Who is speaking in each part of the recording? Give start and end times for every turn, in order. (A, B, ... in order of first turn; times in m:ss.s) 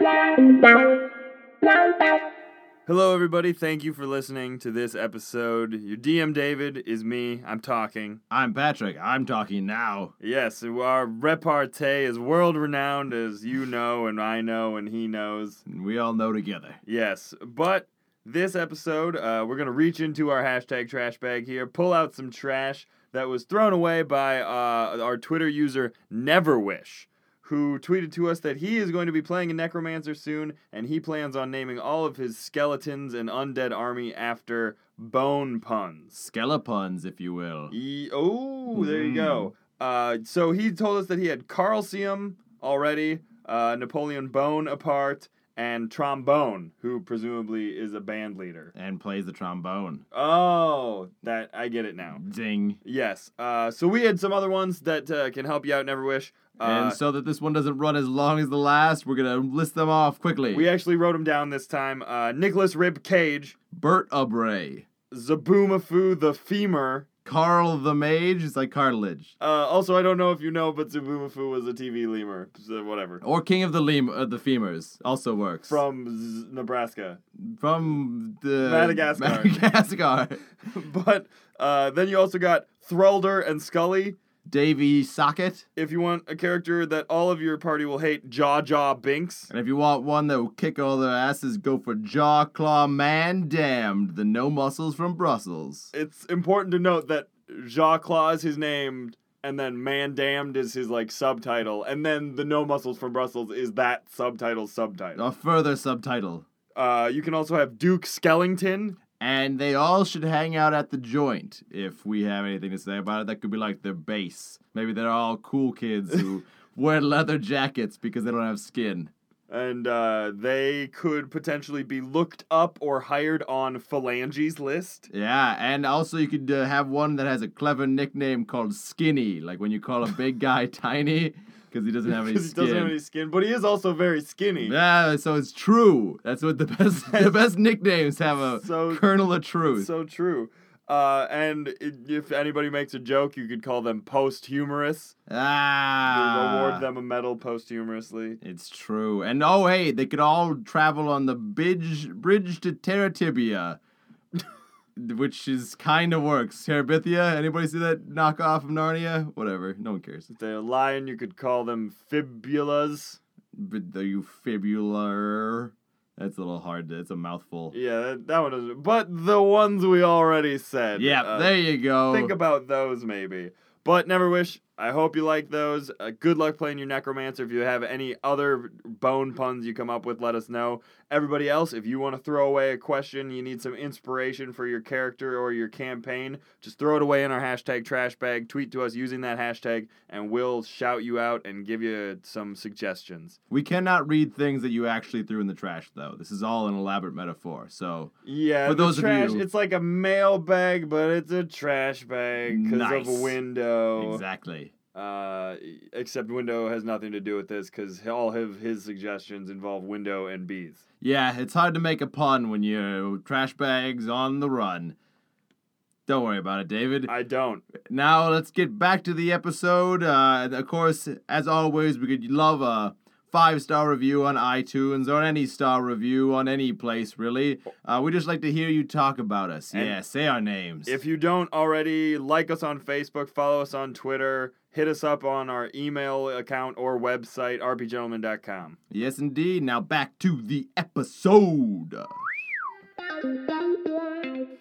0:02.9-0:08.2 A
0:08.3-0:10.1 B
0:10.2-0:15.6 A
0:15.7-0:16.8 B
0:16.8-0:36.2 A
0:36.2-0:37.7 B
0:37.7-0:48.7 A
0:38.7-0:39.5 B
0:48.8-0:50.0 B
0:50.1-0:52.2 A
0:52.2-0:52.8 B
0:52.8-0:57.0 A
0:56.6-1:00.7 B
1:00.5-1:03.6 A
1:03.7-1:04.9 B
1:05.1-1:07.1 A
1:07.2-1:09.3 B
1:09.4-1:13.2 A
1:13.2-1:15.8 B
1:15.7-1:17.2 A
1:17.4-1:20.4 B
1:18.6-1:19.6 A
1:20.6-1:24.2 A
1:24.5-1:25.7 B
1:25.8-1:29.5 A
1:29.5-1:35.9 B
1:35.9-1:45.2 A
1:45.2-1:46.4 B
1:46.8-1:49.0 A
1:49.2-1:59.1 B
1:59.5-2:05.1 A
2:05.1-2:13.0 B
2:12.1-2:14.8 A
2:14.6-2:19.9 B
2:18.6-2:19.0 A
2:19.7-2:25.2 A
2:25.3-2:26.9 B
2:26.1-2:28.4 A
2:28.4-2:33.8 B
2:35.0-2:40.3 B
2:40.3-2:43.2 A
2:43.6-2:47.8 B
2:47.7-3:13.4 A
2:51.0-2:52.4 B
3:13.5-3:18.1 B
3:18.2-3:24.2 A
3:18.6-3:19.5 B
3:22.5-3:23.4 B
3:24.0-3:24.7 B
3:24.9-3:30.8 A
3:31.0-3:35.0 B
3:36.1-3:37.1 B
3:37.1-3:37.6 A
3:37.8-3:51.0 B
3:50.9-3:58.8 A
3:58.9-4:02.2 B